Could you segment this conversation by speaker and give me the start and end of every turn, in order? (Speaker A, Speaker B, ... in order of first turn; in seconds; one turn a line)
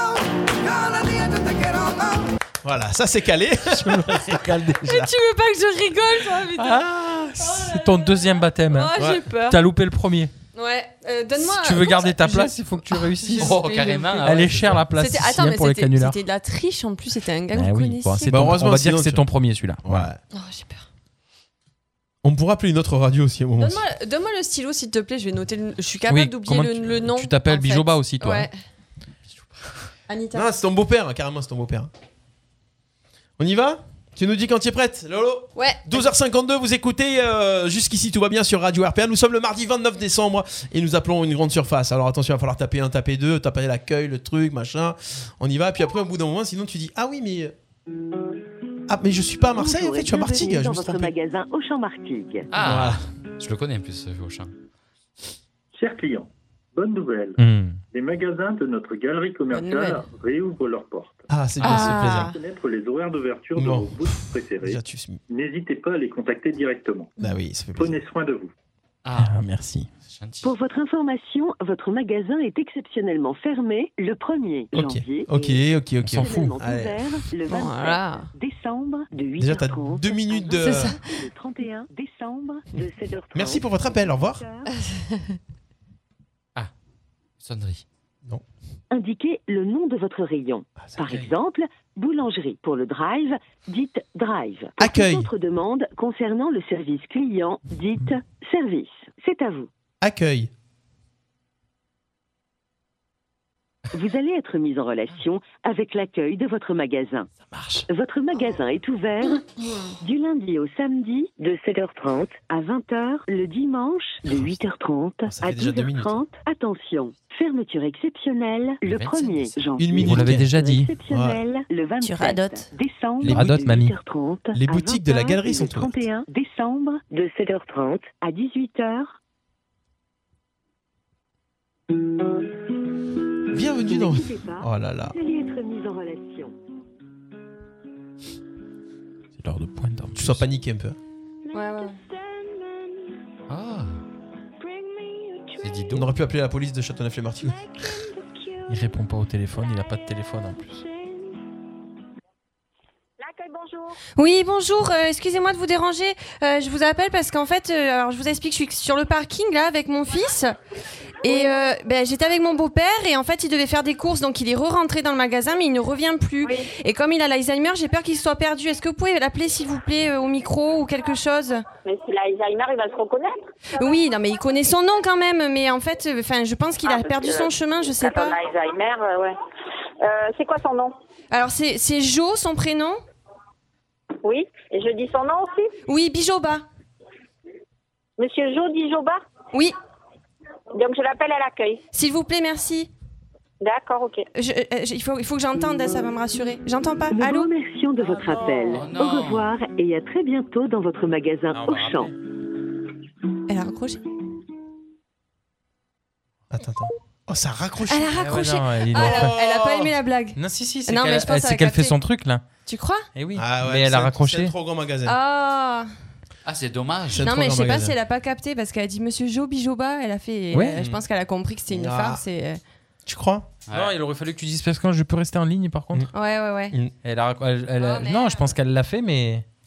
Speaker A: 2.6-4.8
Speaker B: 3.7-5.1
Speaker C: 4.8-6.8
Speaker B: 6.5-10.3
Speaker C: 8.7-9.6
Speaker A: 9.0-9.2
Speaker C: 10.5-18.4
Speaker B: 11.3-13.6
Speaker D: 13.4-14.9
Speaker B: 14.2-16.2
Speaker B: 17.5-20.1
Speaker A: 18.3-19.2
Speaker A: 19.9-20.2
Speaker C: 20.3-20.9
Speaker A: 22.2-23.8
Speaker C: 23.6-28.5
Speaker B: 26.1-28.5
Speaker C: 30.1-30.5
Speaker A: 30.3-31.9
Speaker A: 33.4-47.5
Speaker C: 35.5-36.1
Speaker A: 48.9-51.1
Speaker E: 49.5-52.5
Speaker D: 52.5-54.5
Speaker A: 52.6-53.0
Speaker F: 55.7-57.4
Speaker B: 57.4-57.8
Speaker F: 57.9-67.2
Speaker C: 59.5-60.0
Speaker A: 61.3-62.4
Speaker D: 61.6-62.0
Speaker C: 61.6-62.4
Speaker A: 63.6-65.2
Speaker A: 67.2-68.0
Speaker F: 67.8-68.5
Speaker D: 69.0-69.4
Speaker B: 69.1-69.9
Speaker D: 70.1-70.5
Speaker E: 70.4-75.6
Speaker A: 74.7-77.1
Speaker B: 76.0-76.6
Speaker E: 76.2-84.7
Speaker C: 77.5-78.3
Speaker A: 79.4-81.0
Speaker C: 80.6-81.0
Speaker A: 83.3-84.5
Speaker C: 84.7-85.4
Speaker D: 87.4-87.8
Speaker E: 88.9-99.7
Speaker A: 90.8-91.0
Speaker A: 94.8-95.3
Speaker A: 100.0-100.5
Speaker E: 103.9-107.3
Speaker E: 107.9-109.4
Speaker E: 110.0-129.2
Speaker A: 115.3-116.2
Speaker D: 118.8-119.6
Speaker A: 119.8-120.5
Speaker B: 120.0-120.9
Speaker A: 121.1-121.4
Speaker C: 122.0-122.7
Speaker B: 123.2-124.0
Speaker A: 123.2-123.6
Speaker A: 124.5-126.1
Speaker A: 133.5-135.2
Speaker E: 133.8-136.5
Speaker B: 139.4-140.5
Speaker A: 140.1-141.0
Speaker C: 141.5-142.0
Speaker E: 141.8-142.4
Speaker D: 143.5-144.0
Speaker E: 144.7-145.6
Speaker D: 145.6-146.1
Speaker A: 145.9-147.6
Speaker E: 147.9-148.6
Speaker B: 148.7-150.8
Speaker G: 153.2-154.0
Speaker C: 154.2-160.5
Speaker C: 161.2-171.7
Speaker G: 171.8-173.5
Speaker C: 173.8-178.4
Speaker G: 176.8-179.4
Speaker G: 180.0-180.9
Speaker C: 181.3-183.0
Speaker G: 184.2-185.7
Speaker C: 185.9-186.6
Speaker G: 188.2-189.2
Speaker G: 190.8-191.8
Speaker C: 191.9-192.9
Speaker G: 193.6-194.2
Speaker C: 194.3-197.5
Speaker E: 197.1-202.1
Speaker D: 198.7-199.5
Speaker B: 201.5-202.1
Speaker C: 203.5-204.0
Speaker A: 206.5-209.9
Speaker C: 207.9-212.0
Speaker B: 208.1-209.4
Speaker B: 210.4-212.4
Speaker C: 212.7-213.1
Speaker B: 213.2-214.6
Speaker A: 213.4-215.2
Speaker C: 215.1-215.9
Speaker D: 216.4-217.2
Speaker A: 217.1-218.0
Speaker C: 217.2-222.6
Speaker B: 220.5-220.8
Speaker A: 220.8-221.0
Speaker A: 221.7-222.2
Speaker A: 223.1-223.5
Speaker D: 223.7-223.9
Speaker B: 223.7-226.1
Speaker C: 226.1-226.8
Speaker B: 227.0-229.4
Speaker C: 227.8-228.5